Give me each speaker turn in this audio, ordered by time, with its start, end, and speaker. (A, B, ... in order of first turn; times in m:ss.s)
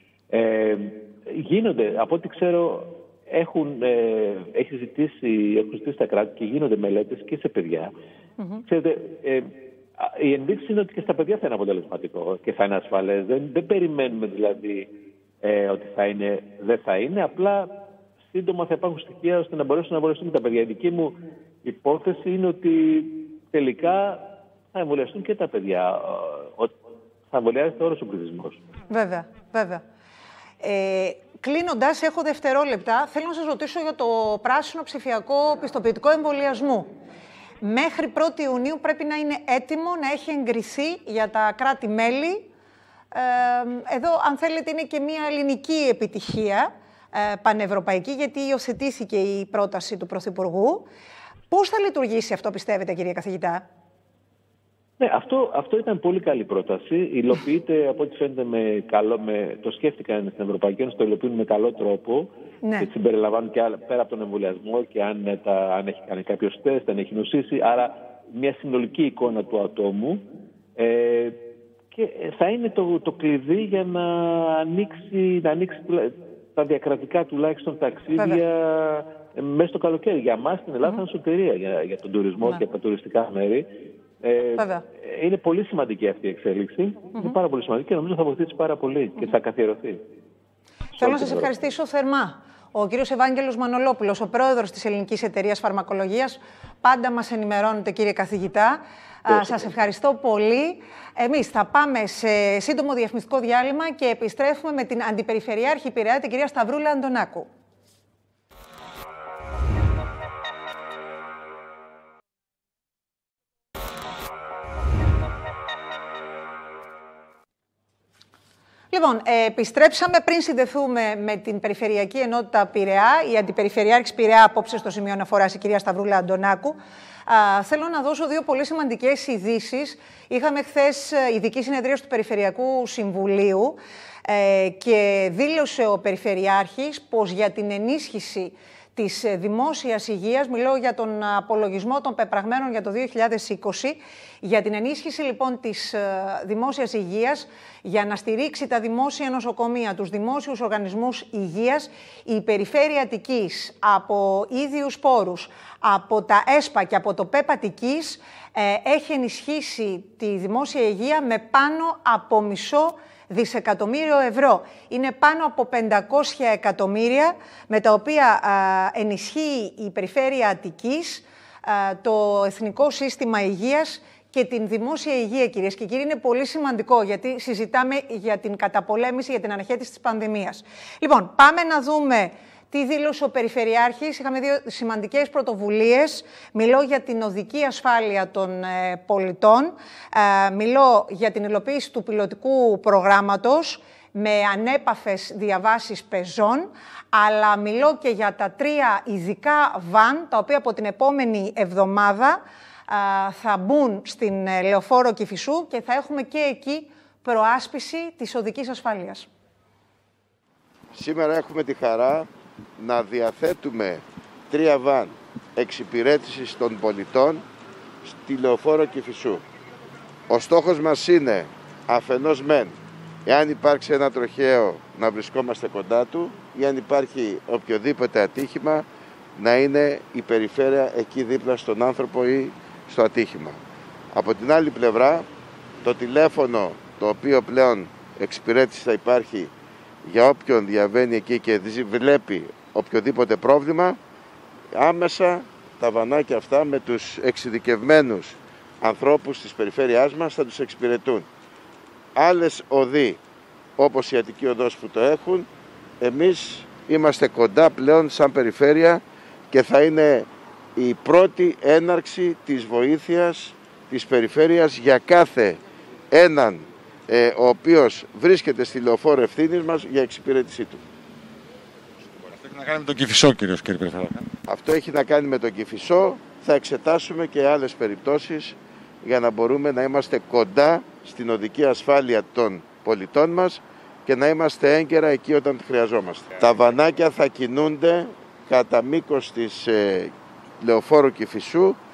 0:00.3-0:07.9 A
0:08.6-0:14.9 A
0:15.4-0:17.7 A
0:18.3-0:26.8 A
0:27.3-0:28.6 A
0:28.9-0:29.8 B
0:30.6-0:36.9 B
0:37.6-0:42.5 B
0:43.1-0:50.9 B
0:51.5-0:53.6 B
0:55.0-1:10.2 A
1:02.6-1:02.9 B
1:10.8-1:11.4 A
1:11.9-1:23.7 A
1:24.2-1:30.0 A
1:24.6-1:24.8 B
1:31.0-1:31.5 A
1:31.0-1:47.5 B
1:58.9-3:29.3 B
3:30.9-3:37.4 C
3:38.0-3:39.4 C
3:40.3-3:48.8 C
3:49.4-3:53.6 C
3:54.1-3:55.3 C
3:55.8-3:59.5 C
4:00.1-4:04.0 C
4:04.7-4:11.3 C
4:12.2-4:13.2 C
4:13.8-4:15.5 C
4:16.0-4:25.6 C
4:26.1-4:30.8 C
4:32.0-4:34.3 D
4:34.5-4:51.8 C